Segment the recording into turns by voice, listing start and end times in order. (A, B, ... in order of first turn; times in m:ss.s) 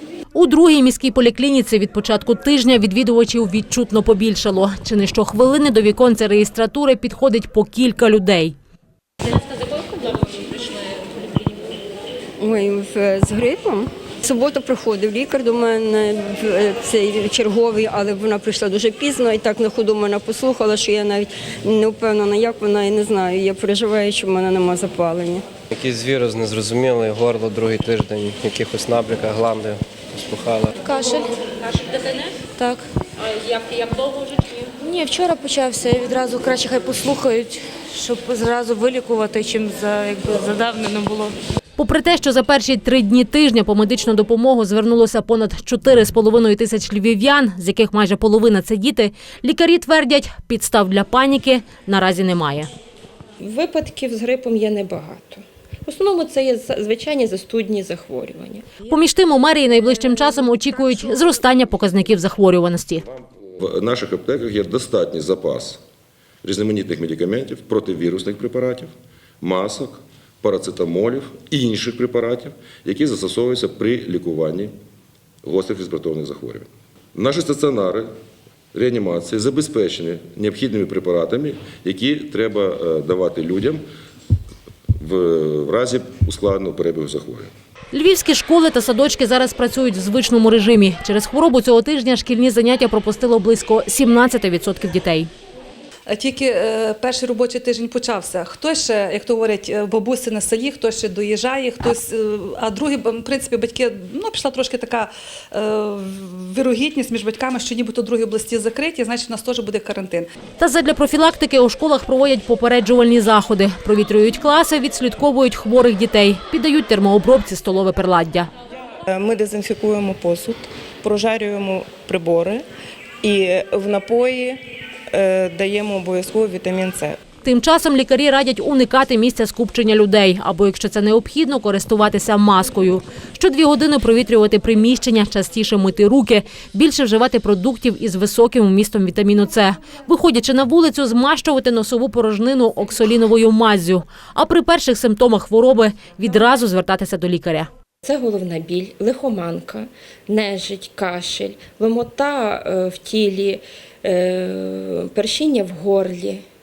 0:00.3-0:08.5 A
0:12.4-0:25.4 B
0:25.7-0:30.7 C
0:30.8-0:31.3 D
0:32.4-0:32.8 D
0:33.5-0:34.2 A
0:34.8-0:41.3 D
0:41.8-0:52.7 A
0:53.4-0:58.9 E
0:58.9-1:03.0 A
1:03.6-1:05.8 F
1:06.4-1:08.9 F
1:09.4-1:14.7 F
1:15.4-1:18.1 F
1:18.7-1:23.8 F
1:25.0-1:27.5 F
1:27.9-1:35.3 A
1:36.1-1:50.3 G
1:50.6-1:58.5 A
1:59.1-2:02.6 H
2:03.2-2:04.6 H
2:05.1-2:07.2 H
2:07.4-2:27.7 A
2:28.0-2:36.4 E